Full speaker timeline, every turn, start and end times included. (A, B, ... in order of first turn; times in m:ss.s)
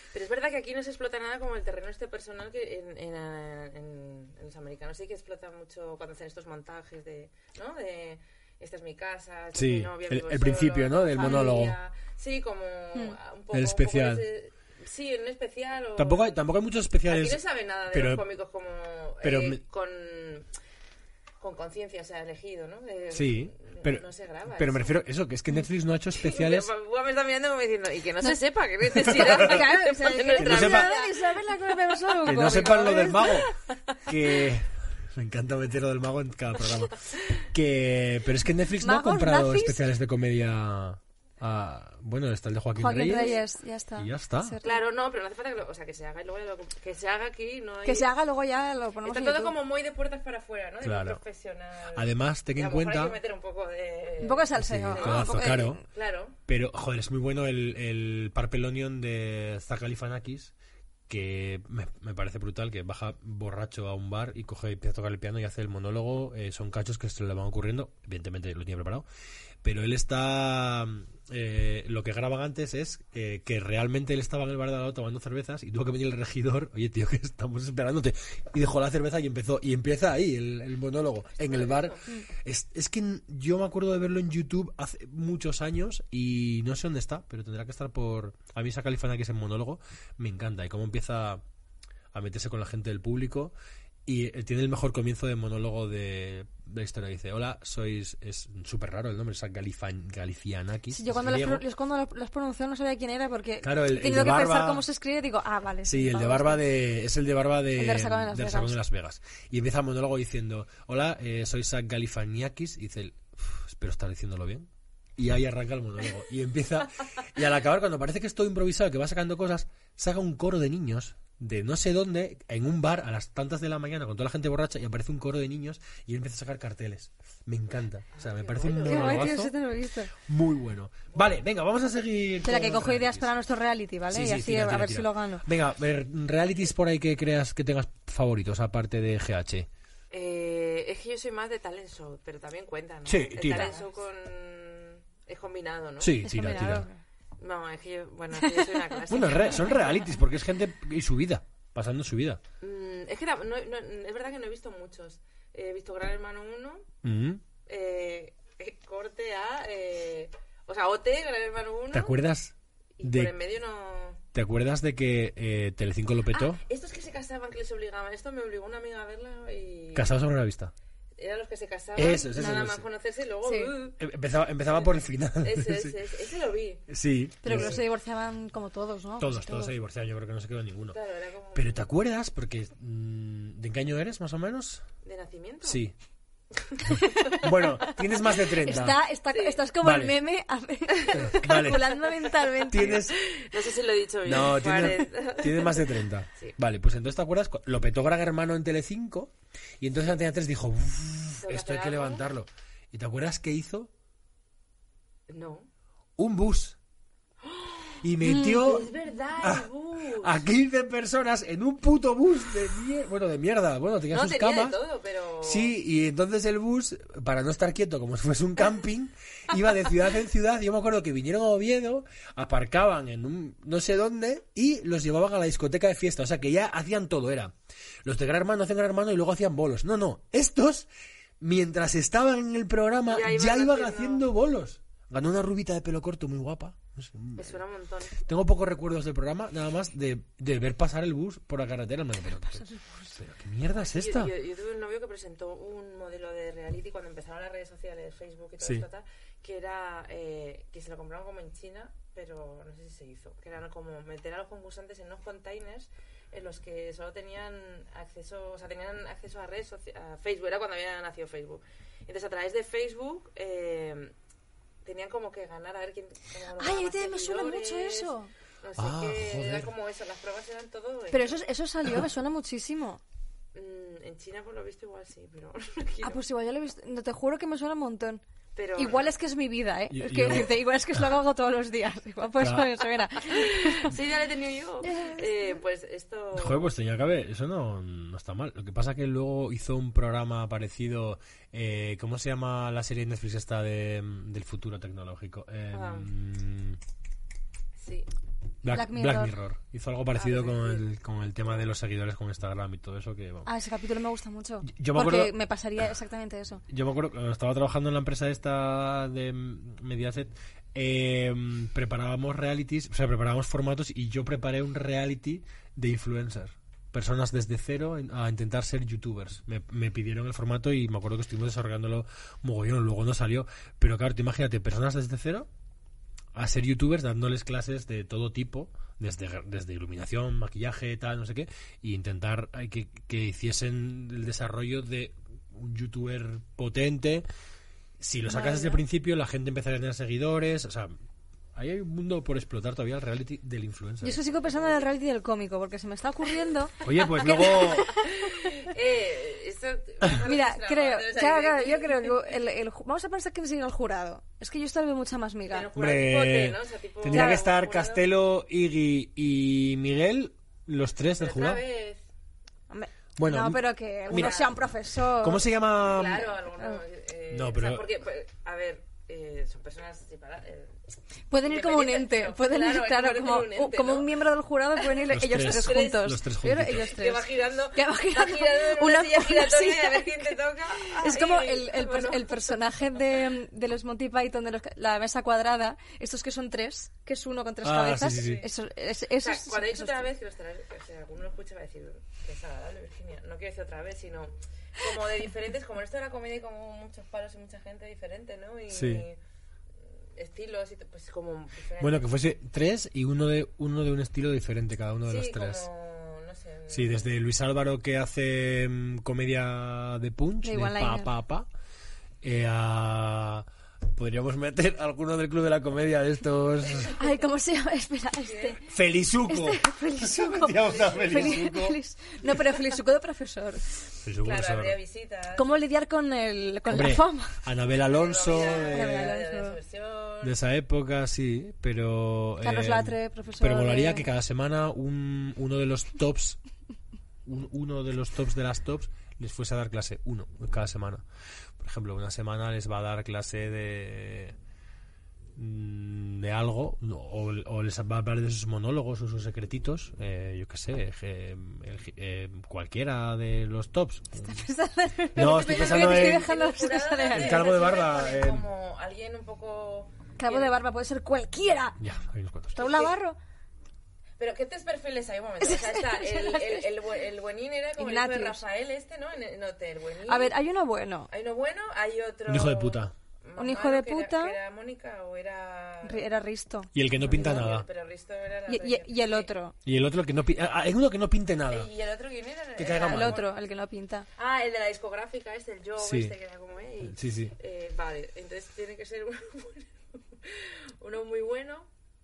0:00.1-0:16.4 A
0:09.5-0:11.8 B
0:11.2-0:11.6 C
0:13.5-0:14.2 B
0:16.0-0:18.2 B
0:17.1-0:20.5 A
0:19.2-0:19.6 B
0:21.4-0:25.0 A
0:23.1-0:26.7 B
0:26.2-0:31.2 A
0:28.9-0:33.4 C
0:29.0-0:29.6 B
0:30.4-0:30.9 B
0:32.2-0:33.5 B
0:32.4-0:33.4 A
0:34.0-0:43.4 B
0:38.8-0:39.9 C
0:42.8-0:44.8 C
0:43.1-0:43.4 A
0:44.0-0:44.6 B
0:44.6-0:48.1 A
0:47.8-0:49.6 C
0:49.0-0:56.4 A
0:50.8-0:51.2 B
0:51.9-0:53.2 B
0:54.2-0:55.8 C
0:54.6-0:55.8 B
0:56.5-1:00.5 B
1:01.1-1:09.1 B
1:09.6-1:31.4 B
1:21.4-1:22.1 A
1:32.1-1:33.5 B
1:34.1-1:41.6 B
1:40.9-1:46.6 C
1:43.6-1:44.8 B
1:45.9-2:09.5 B
1:47.8-1:48.8 C
2:08.1-2:09.4 A
2:08.8-2:10.1 C
2:10.2-2:13.3 B
2:11.1-2:11.4 A
2:12.4-2:15.4 C
2:14.1-2:19.7 B
2:20.1-2:26.3 A
2:23.1-2:23.7 B
2:23.5-2:23.8 C
2:26.0-2:26.9 B
2:26.2-2:27.0 C
2:27.4-2:30.0 A
2:28.4-2:29.3 C
2:29.1-2:32.4 B
2:32.6-2:36.9 A
2:37.0-2:37.4 B
2:37.7-2:42.2 A
2:41.9-2:43.3 B
2:43.0-2:44.2 A
2:44.3-2:46.6 B
2:46.3-2:50.1 A
2:50.0-2:50.7 B
2:51.2-2:54.0 A
2:52.0-2:52.8 B
2:53.4-2:53.7 C
2:54.0-2:56.0 B
2:54.7-2:56.9 A
2:56.9-2:57.8 B
2:57.4-2:59.7 C
2:57.5-2:57.8 A
2:59.2-3:01.0 B
3:00.9-3:01.9 A
3:01.6-3:04.8 B
3:05.0-3:05.8 A
3:05.6-3:05.9 B
3:06.5-3:07.5 A
3:06.9-3:07.5 C
3:07.4-3:09.0 B
3:08.6-3:13.0 C
3:09.3-3:09.6 A
3:09.8-3:10.2 B
3:11.0-3:11.3 A
3:11.2-3:12.0 B
3:12.7-3:13.2 B
3:12.7-3:16.6 A
3:14.2-3:23.9 B
3:21.4-3:22.3 A
3:25.3-3:25.7 A
3:26.2-3:26.8 B
3:27.4-3:30.4 A
3:28.0-3:34.8 B
3:28.2-3:28.6 C
3:34.1-3:35.7 A
3:35.4-3:47.5 B
3:48.0-3:50.9 B
3:51.4-3:57.6 B
3:53.1-3:54.3 A
3:57.4-3:58.2 A
3:58.2-4:04.3 B
4:02.4-4:03.2 C
4:03.8-4:24.1 A
4:08.6-4:08.9 B
4:24.8-4:31.4 A
4:26.6-4:28.3 C
4:28.8-4:29.7 B
4:31.1-4:33.0 C
4:33.5-4:36.2 A
4:36.0-4:38.2 C
4:38.6-4:39.1 A
4:38.8-4:43.9 C
4:39.9-4:41.0 B
4:42.4-4:42.7 B
4:43.3-4:46.7 A
4:44.8-4:45.6 C
4:46.3-4:56.8 B
4:55.7-4:56.1 A
4:57.8-4:58.1 A
4:58.6-5:03.5 B
4:58.7-4:59.3 C
5:00.2-5:00.9 A
5:03.4-5:06.6 C
5:04.7-5:05.3 B
5:06.7-5:25.5 B
5:26.4-5:37.2 B
5:38.0-5:40.9 B
5:38.3-5:38.8 C
5:41.6-5:44.2 B
5:44.0-5:48.5 C
5:46.8-5:52.3 A
5:46.8-5:47.9 B
5:50.2-5:55.7 C
5:55.5-5:58.0 A
5:55.8-6:01.6 B
5:57.1-5:57.4 C
6:01.2-6:02.0 A
6:02.7-6:05.4 C
6:03.2-6:04.4 B
6:04.1-6:04.6 A
6:05.2-6:06.3 B
6:05.8-6:10.8 A
6:06.4-6:06.8 C
6:07.3-6:07.9 B
6:11.3-6:30.1 C
6:11.4-6:14.2 A
6:15.1-6:17.0 B
6:15.4-6:16.1 A
6:16.7-6:22.6 A
6:27.6-6:28.5 B
6:28.1-6:28.4 A
6:29.2-6:39.2 A
6:38.7-6:39.1 B
6:40.2-6:42.1 A
6:41.8-6:45.7 B
6:45.1-6:47.1 A
6:46.7-6:51.5 B
6:50.4-6:51.1 C
6:52.2-6:56.9 B
6:56.9-6:58.6 C
6:58.3-6:58.6 A
6:58.7-7:01.8 B
6:59.3-7:03.7 C
7:00.6-7:01.5 A
7:04.0-7:04.8 B
7:04.2-7:05.5 A
7:05.4-7:07.4 C
7:06.7-7:09.1 B
7:07.8-7:10.3 A
7:08.7-7:09.6 C
7:10.2-7:16.4 B
7:12.4-7:14.1 C
7:17.3-7:21.0 B
7:21.6-7:24.4 B
7:25.4-7:34.4 B
7:34.2-7:37.5 C
7:35.2-7:36.3 B
7:35.2-7:40.5 A
7:37.1-7:38.5 B
7:40.2-7:41.8 C
7:41.8-7:42.6 B
7:42.6-7:43.2 C
7:42.6-7:42.9 A
7:44.2-7:50.4 A
7:45.4-7:46.7 C
7:47.8-7:48.4 C
7:50.1-7:51.1 C
7:51.1-7:56.0 A
7:52.3-7:52.9 B
7:53.4-7:54.4 C
7:55.8-7:57.5 C
7:56.7-7:57.7 B
7:57.0-7:59.3 A
7:58.5-7:59.6 C
7:59.6-8:01.7 B
8:01.5-8:03.3 A
8:02.6-8:03.2 B
8:02.8-8:04.1 C
8:04.2-8:11.7 A
8:05.8-8:06.2 B
8:06.9-8:07.3 B